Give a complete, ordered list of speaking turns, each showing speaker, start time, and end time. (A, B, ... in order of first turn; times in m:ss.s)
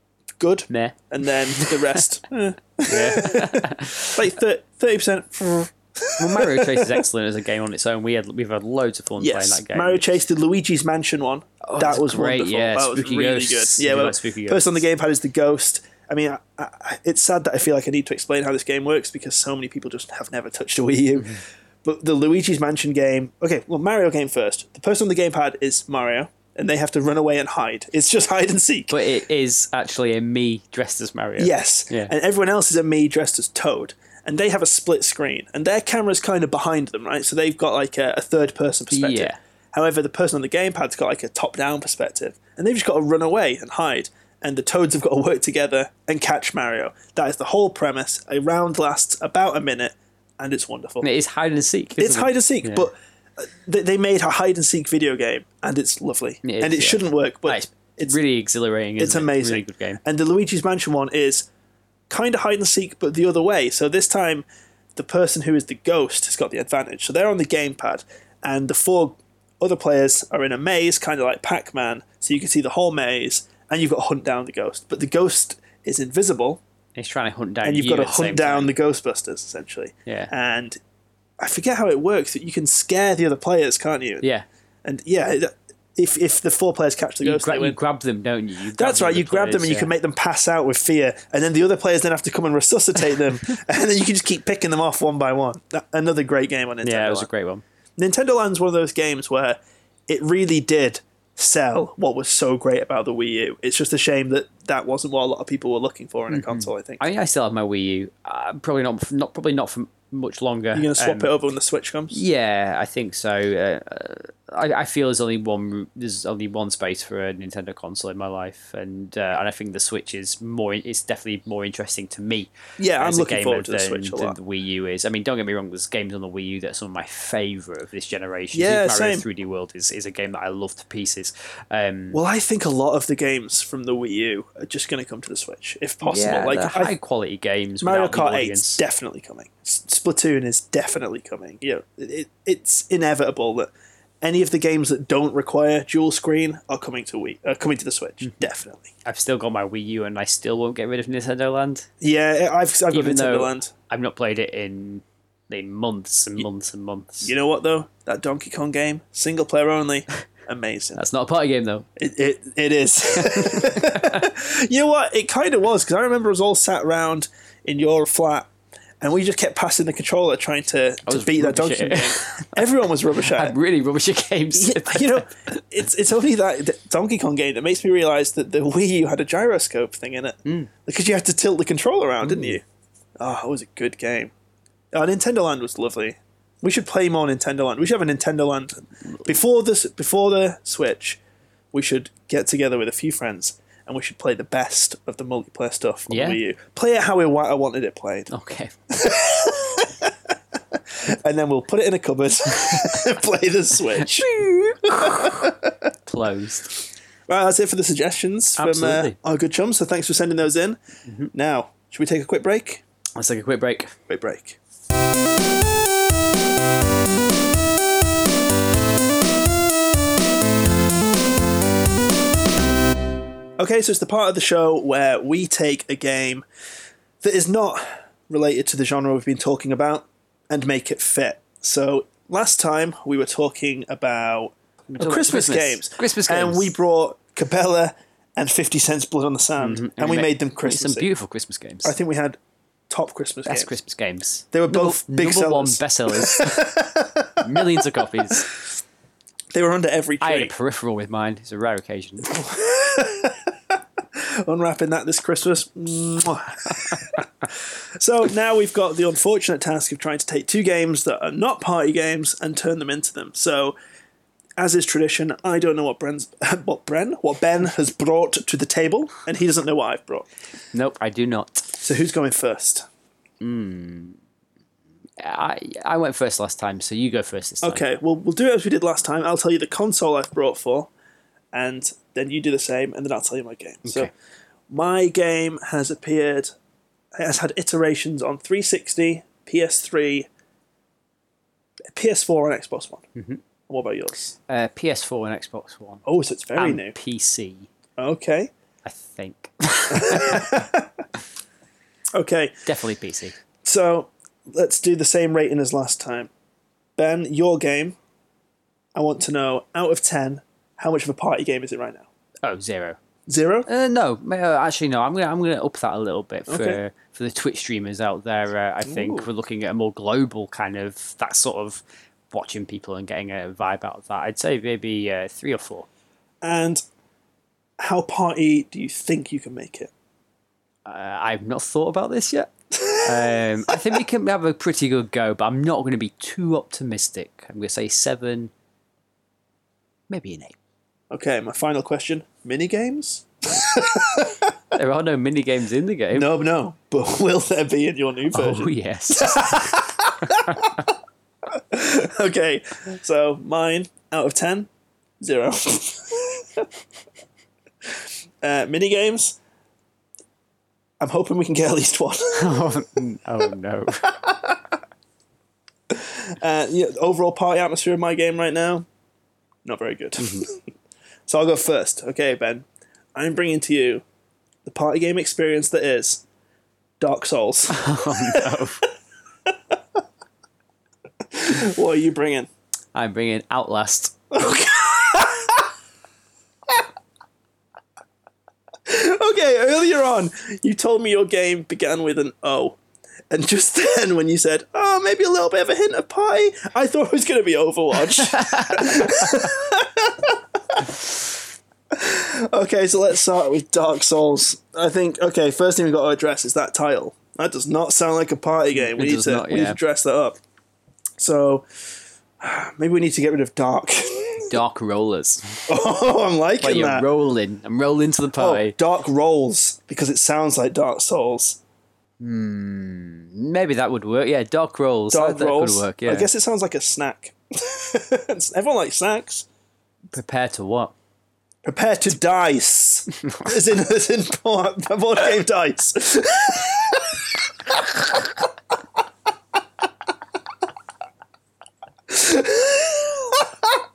0:00.4-0:07.0 A
0:00.7-0:01.0 B
0:02.9-0:04.2 B
0:06.2-0:10.0 B
0:09.2-0:29.0 A
0:11.6-0:14.8 B
0:28.9-0:32.1 B
0:31.4-0:51.1 A
0:38.9-0:39.4 B
0:51.0-0:52.9 B
0:52.0-0:58.2 A
0:56.4-1:00.0 B
0:59.0-1:01.5 A
1:02.1-1:04.4 A
1:05.0-1:16.6 A
1:17.0-1:18.7 B
1:17.6-1:20.8 A
1:21.4-1:24.3 A
1:24.8-1:27.8 A
1:27.2-1:29.9 B
1:28.8-1:37.3 A
1:36.8-1:37.6 B
1:38.0-1:39.6 A
1:40.1-1:47.0 A
1:46.3-1:51.3 B
1:50.7-1:52.2 A
1:52.1-2:12.2 B
2:02.8-2:04.4 A
2:08.5-2:09.2 A
2:12.1-2:16.9 A
2:16.0-2:18.8 B
2:17.8-2:23.7 A
2:24.2-2:28.9 A
2:29.0-2:31.9 B
2:32.0-2:33.7 A
2:32.9-2:37.3 B
2:37.2-2:41.0 A
2:41.0-2:41.9 B
2:42.0-2:48.5 A
2:43.2-2:44.2 B
2:49.0-2:53.6 A
2:51.1-2:52.6 B
2:53.2-2:55.6 B
2:54.6-3:02.6 A
3:02.2-3:02.6 B
3:03.2-3:04.3 A
3:04.9-3:11.2 A
3:11.7-3:18.3 A
3:16.1-3:16.4 B
3:18.3-3:18.7 B
3:18.9-3:20.2 A
3:20.7-3:25.8 A
3:22.6-3:23.0 B
3:24.0-3:25.5 B
3:26.1-3:26.7 B
3:27.3-3:30.8 A
3:28.6-3:29.2 B
3:31.3-3:32.8 A
3:33.2-3:34.0 B
3:34.1-3:34.6 A
3:43.6-3:46.4 A
3:47.2-4:01.1 A
3:54.9-3:56.7 B
3:59.6-4:01.9 B
4:01.8-4:02.4 A
4:02.9-4:03.7 A
4:03.5-4:06.7 B
4:04.5-4:08.6 A
4:07.4-4:08.5 B
4:09.5-4:10.5 A
4:10.2-4:12.4 B
4:12.3-4:23.8 A
4:24.6-4:30.3 A
4:30.7-4:31.8 B
4:31.8-4:32.9 A
4:33.4-4:34.2 B
4:35.2-4:37.8 B
4:37.6-4:40.9 A
4:41.5-4:44.1 A
4:44.7-4:46.5 A
4:47.2-4:50.3 A
4:52.0-4:53.1 A
4:53.2-4:53.4 B
4:53.7-4:54.4 A
4:54.5-4:56.0 B
4:56.1-4:57.0 A
4:56.6-4:57.7 B
4:58.0-4:58.5 A
4:58.8-5:00.5 B
4:59.9-5:01.0 A
5:02.2-5:02.6 A
5:02.7-5:03.4 B
5:03.6-5:06.3 A
5:07.0-5:08.0 A
5:09.0-5:12.1 A
5:12.4-5:13.0 B
5:13.3-5:13.7 A
5:13.7-5:25.9 B
5:16.5-5:16.8 A
5:18.8-5:19.3 A
5:26.4-5:26.8 A
5:27.8-5:29.9 A
5:30.8-5:32.5 B
5:32.7-5:34.0 A
5:33.0-5:38.5 B
5:40.1-5:40.6 B
5:41.1-5:44.5 A
5:44.7-5:46.3 B
5:46.1-5:50.9 A
5:48.3-5:50.6 B
5:51.6-5:54.7 A
5:55.2-5:56.7 A
5:58.4-5:59.4 A
6:01.0-6:02.8 A
6:02.4-6:04.1 B
6:04.1-6:04.6 A
6:05.9-6:08.9 A
6:09.6-6:10.6 A
6:10.2-6:10.4 B
6:11.3-6:14.0 A
6:14.7-6:16.2 A
6:17.0-6:18.8 A
6:17.7-6:18.8 B
6:19.5-6:19.8 A
6:21.3-6:22.5 A
6:23.0-6:24.2 B
6:24.3-6:25.7 A
6:28.9-6:32.8 A
6:33.3-6:41.0 A
6:38.3-6:39.5 B
6:41.9-6:50.4 A
6:48.8-6:49.8 B
6:51.2-6:51.7 A
6:52.4-6:54.6 A
6:54.5-6:55.6 B
6:55.7-6:57.1 A
6:56.6-6:58.8 B
6:58.4-7:01.6 A
7:02.2-7:06.3 B
7:05.1-7:09.5 A
7:10.1-7:10.9 B
7:11.6-7:18.3 A
7:22.1-7:23.8 A